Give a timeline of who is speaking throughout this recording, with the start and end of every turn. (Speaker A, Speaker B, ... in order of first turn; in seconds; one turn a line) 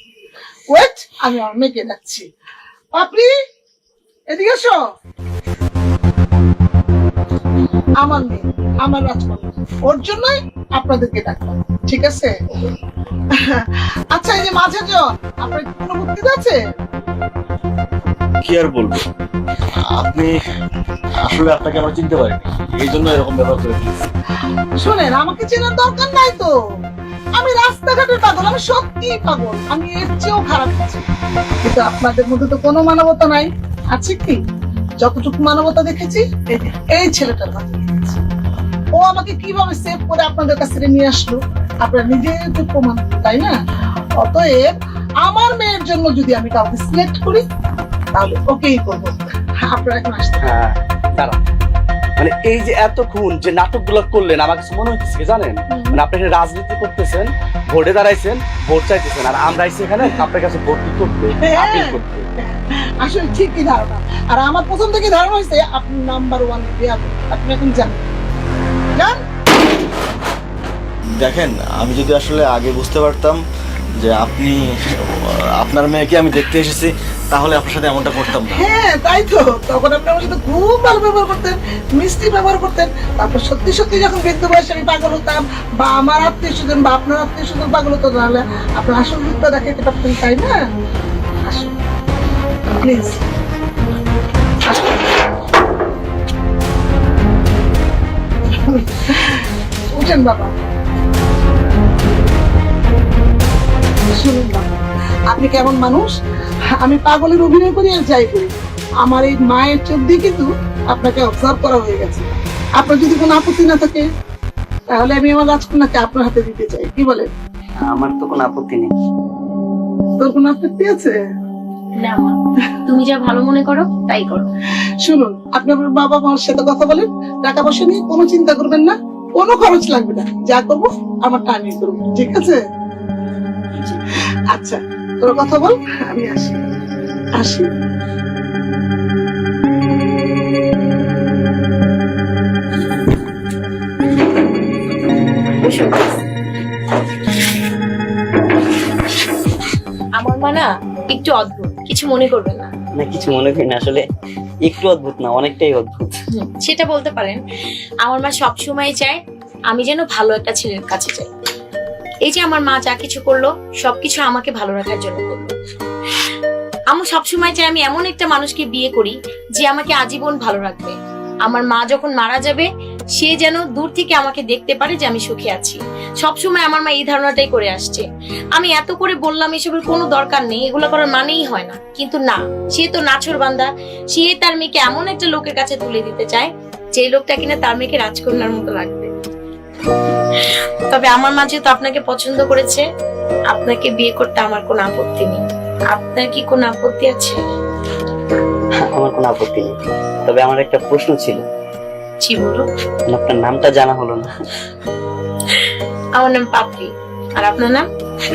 Speaker A: 0.7-2.3
Speaker A: 2.9-3.3
Speaker A: 4.3-4.8
Speaker A: 8.0-12.7
Speaker A: 13.4-16.6
Speaker B: 18.4-19.0
Speaker B: 19.9-20.3
Speaker B: 21.3-23.9
Speaker A: 24.8-26.5
Speaker A: 27.4-31.0
Speaker A: 31.6-34.4
Speaker A: 35.0-38.2
Speaker A: 38.9-43.5
Speaker A: 44.2-47.4
Speaker A: 48.1-50.5
Speaker C: 50.4-51.4
Speaker C: 52.2-62.3
Speaker A: 55.7-56.0
Speaker A: 60.0-60.2
Speaker A: 61.4-68.0
Speaker B: 71.2-73.3
Speaker B: 74.0-74.5
Speaker B: 75.6-76.9
Speaker A: 78.3-90.6
Speaker A: 91.4-91.8
Speaker A: 92.8-93.2
Speaker A: 94.7-95.1
Speaker A: 98.5-100.5
Speaker A: 104.1-104.7
Speaker A: 105.3-106.1
Speaker A: 106.7-112.2
Speaker A: 112.8-114.0
Speaker A: 114.9-117.3
Speaker D: 117.9-118.9
Speaker A: 120.2-121.2
Speaker E: 122.0-124.5
Speaker A: 125.0-132.6
Speaker A: 134.5-136.6
Speaker A: 137.3-137.7
Speaker E: 145.6-146.2
Speaker E: 150.2-152.7
Speaker D: 153.0-154.0
Speaker D: 154.6-156.2
Speaker E: 156.3-157.4
Speaker E: 158.0-161.3
Speaker E: 162.2-165.5
Speaker E: 166.9-189.1
Speaker E: 190.4-192.8
Speaker E: 193.5-197.4
Speaker D: 198.8-201.4
Speaker E: 202.2-202.6
Speaker D: 203.1-204.3
Speaker E: 205.5-207.8